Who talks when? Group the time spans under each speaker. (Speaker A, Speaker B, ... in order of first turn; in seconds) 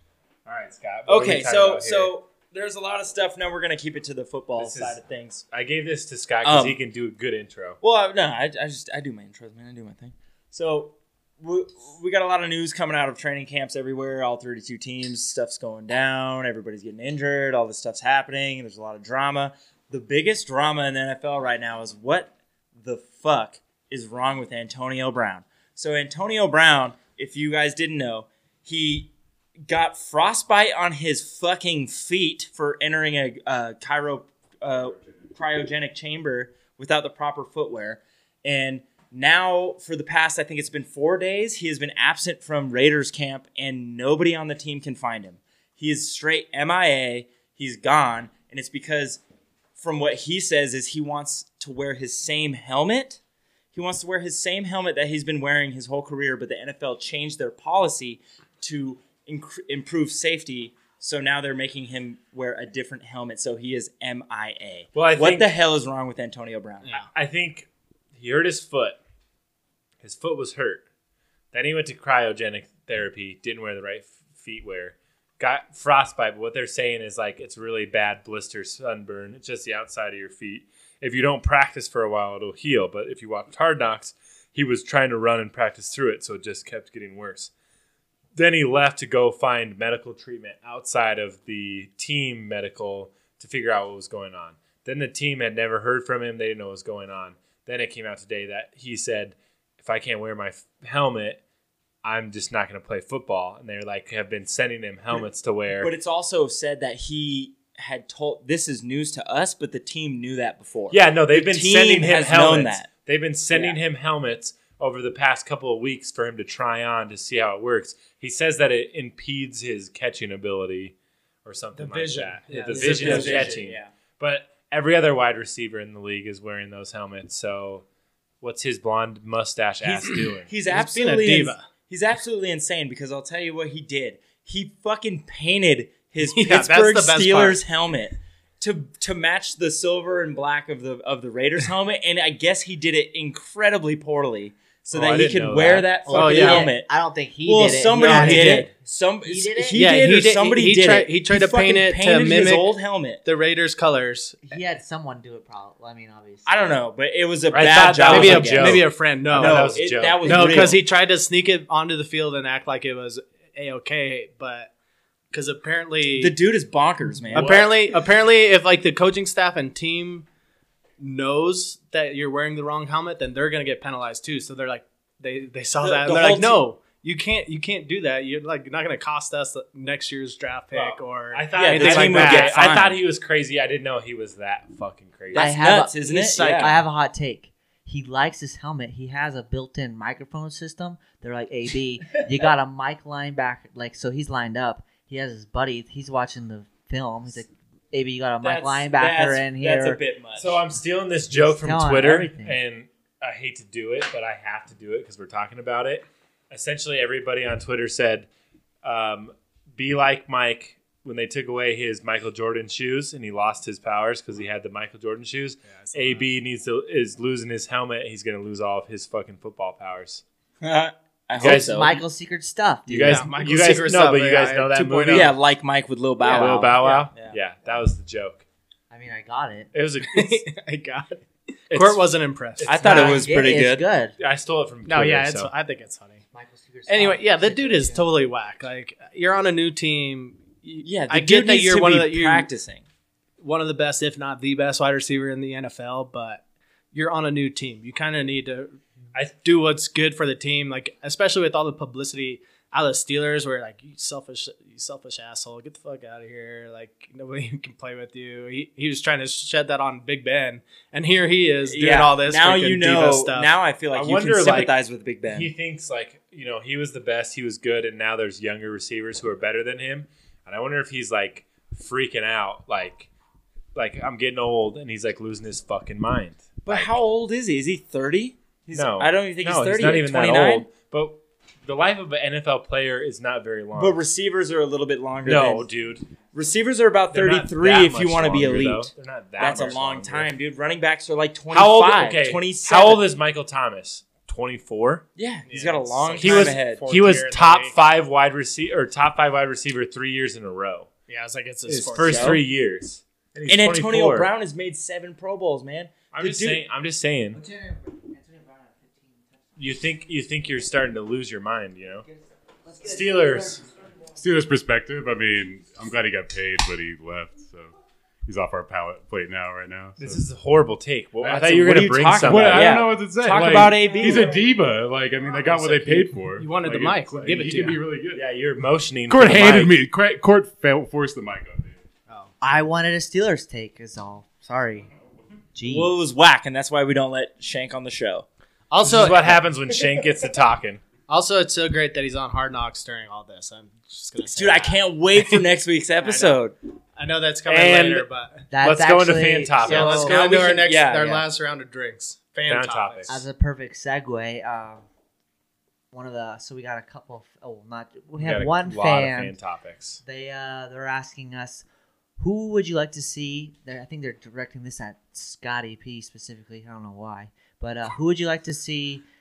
Speaker A: 0.4-2.1, 4.6-5.0, 5.5-7.8, 64.9-65.5, 67.1-69.0, 70.0-70.8, 71.5-87.5, 88.3-101.4, 102.0-105.9, 110.9-127.8, 128.4-130.5, 144.9-145.9, 157.5-160.7, 180.7-185.5, 200.4-208.3, 208.8-220.2, 221.4-222.0, 222.9-225.3, 226.2-228.4, 229.7-230.4, 231.7-232.0, 232.6-233.3, 234.2-235.5, 263.9-264.8, 265.3-273.1, 273.7-277.0, 278.7-284.0, 285.2-286.1, 287.1-290.3, 291.5-295.0, 296.2-300.9, 301.7-304.3, 306.1-307.4, 309.6-312.1, 312.8-313.6, 320.0-323.8, 328.1-329.7, 338.8-340.8, 347.5-348.1, 348.6-350.2, 352.4-353.2, 358.2-360.0
Speaker B: 1.1-5.4, 6.4-6.8, 7.8-29.1, 29.7-49.2, 49.8-53.2, 53.7-67.0, 105.8-112.9, 113.5-113.8, 122.7-123.9, 129.8-146.9, 147.4-153.2, 156.4-160.8, 166.1-167.9, 175.8-176.6, 181.5-183.0, 185.3-186.8, 198.4-200.6, 220.6-222.0, 225.1-227.4, 232.7-233.8, 240.8-242.8, 261.6-265.5, 276.6-280.7, 283.8-285.7, 286.3-293.0, 295.1-296.8, 301.7-302.4, 303.5-306.6, 321.4-324.3, 335.6-338.2, 344.3-346.5, 349.8-351.2
Speaker C: 121.8-123.6, 130.7-131.7, 136.2-137.6, 146.1-146.7, 147.9-148.7, 149.7-152.7, 153.2-154.4, 158.1-164.7, 165.3-166.3, 167.3-170.2, 171.0-182.6, 186.3-186.7, 215.7-216.2, 223.0-225.3, 226.3-227.0, 230.1-232.9, 234.9-236.2, 236.9-242.5, 243.4-263.5, 295.5-297.8, 301.1-302.4, 325.4-327.8, 338.7-339.4, 341.1-345.4, 346.0-346.4, 346.9-348.4, 349.6-353.2
Speaker D: 146.1-148.7, 149.2-149.9, 154.4-156.7, 185.3-200.0, 201.3-202.6, 221.4-223.3, 228.9-229.7, 232.8-234.1, 236.3-238.1, 307.3-309.3, 312.6-313.6, 332.4-334.9, 335.5-335.9, 348.5-350.0, 353.1-354.8, 355.9-359.4, 360.0-361.6, 362.2-369.0
Speaker E: 314.1-317.7, 318.2-320.2, 321.2-328.2, 329.1-331.8